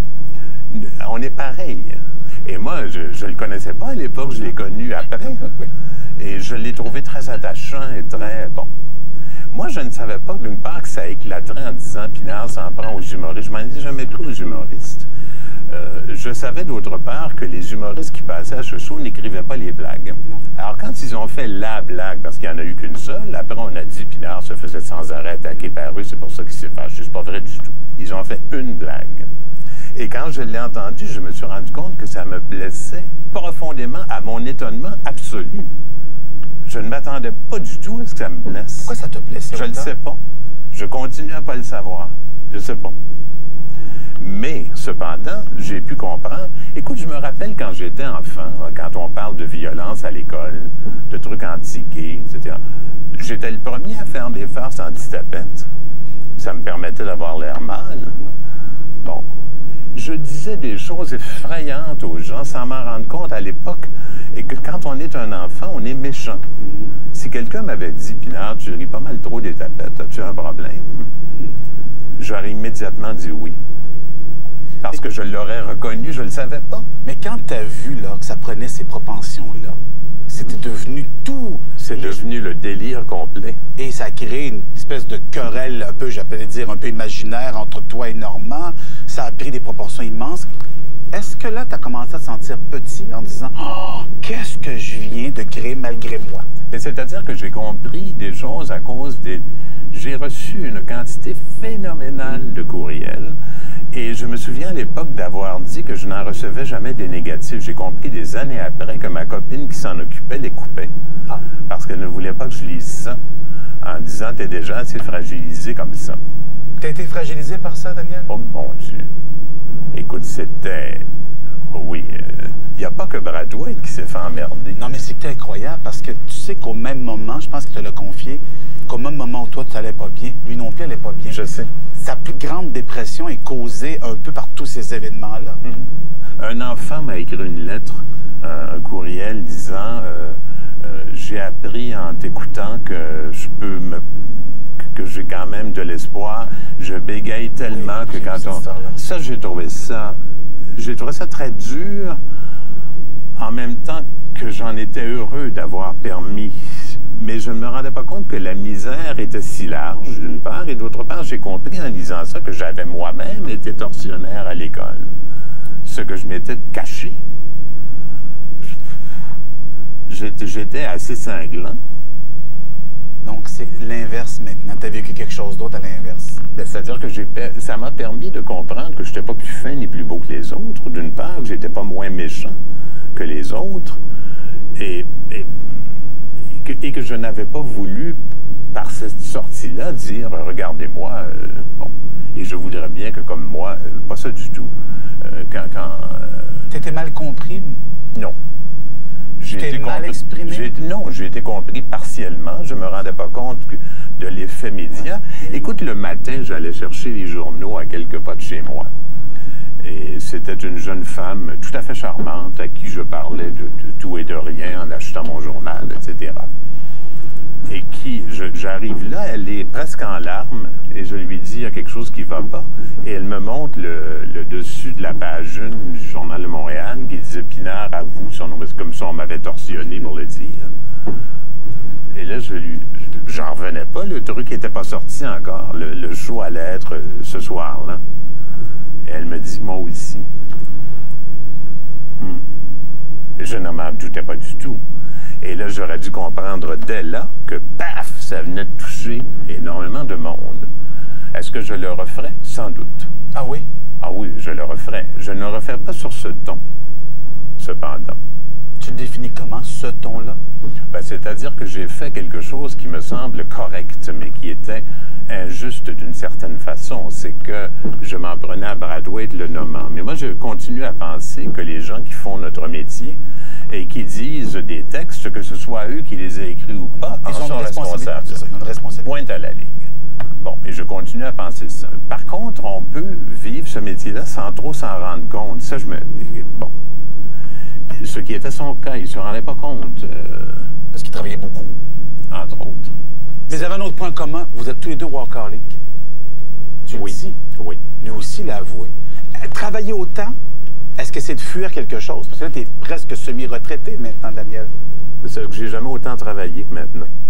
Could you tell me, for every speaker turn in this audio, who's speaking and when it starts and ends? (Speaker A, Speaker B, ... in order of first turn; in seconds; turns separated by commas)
Speaker A: 0.7-5.6, Speaker A: 6.2-8.7, Speaker A: 9.5-15.1, Speaker A: 15.7-29.3, Speaker A: 29.9-35.7, Speaker A: 36.7-38.9, Speaker B: 38.9-39.9, Speaker A: 39.5-40.2, Speaker A: 40.7-43.0, Speaker A: 44.2-52.6, Speaker A: 53.1-55.7, Speaker A: 56.4-58.2, Speaker A: 59.0-59.3, Speaker A: 59.9-66.4, Speaker B: 66.6-66.9, Speaker A: 67.1-71.1, Speaker A: 72.2-73.6, Speaker A: 74.8-76.9, Speaker B: 77.0-82.2, Speaker A: 81.8-83.6, Speaker B: 83.8-90.5, Speaker B: 91.1-96.5, Speaker A: 96.7-103.4, Speaker A: 103.9-110.9, Speaker A: 111.7-113.2, Speaker A: 113.8-116.2, Speaker B: 116.8-118.3, Speaker A: 118.3-119.1, Speaker A: 119.9-121.1, Speaker A: 121.7-125.0, Speaker B: 124.8-131.4, Speaker A: 131.3-131.7, Speaker B: 131.9-135.6, Speaker A: 135.6-150.2, Speaker B: 147.7-149.0, Speaker A: 150.8-152.2, Speaker A: 153.4-165.1, Speaker A: 165.8-167.2, Speaker A: 170.1-171.8, Speaker B: 173.2-176.4, Speaker A: 176.5-182.6, Speaker A: 183.2-184.0, Speaker A: 184.8-185.5, Speaker A: 186.5-188.2, Speaker A: 188.7-196.7, Speaker B: 196.7-197.8, Speaker A: 199.4-208.9, Speaker B: 199.5-200.7, Speaker A: 209.8-216.5, Speaker A: 217.7-230.7, Speaker A: 232.1-238.0, Speaker A: 239.1-240.3, Speaker A: 242.2-242.4, Speaker A: 243.4-244.8, Speaker A: 245.4-250.7, Speaker A: 251.3-253.1, Speaker B: 253.3-253.7, Speaker A: 254.0-256.6, Speaker A: 257.6-258.2, Speaker B: 258.8-260.4, Speaker A: 260.9-273.2, Speaker A: 273.7-278.4, Speaker B: 276.9-279.1, Speaker A: 279.0-279.9, Speaker A: 280.4-286.7, Speaker A: 288.0-290.7, Speaker B: 290.9-291.8, Speaker A: 292.3-292.9, Speaker B: 293.5-295.8, Speaker B: 296.9-297.4, Speaker A: 296.9-297.8, Speaker B: 298.0-300.4, Speaker B: 301.0-304.7, Speaker A: 305.2-307.1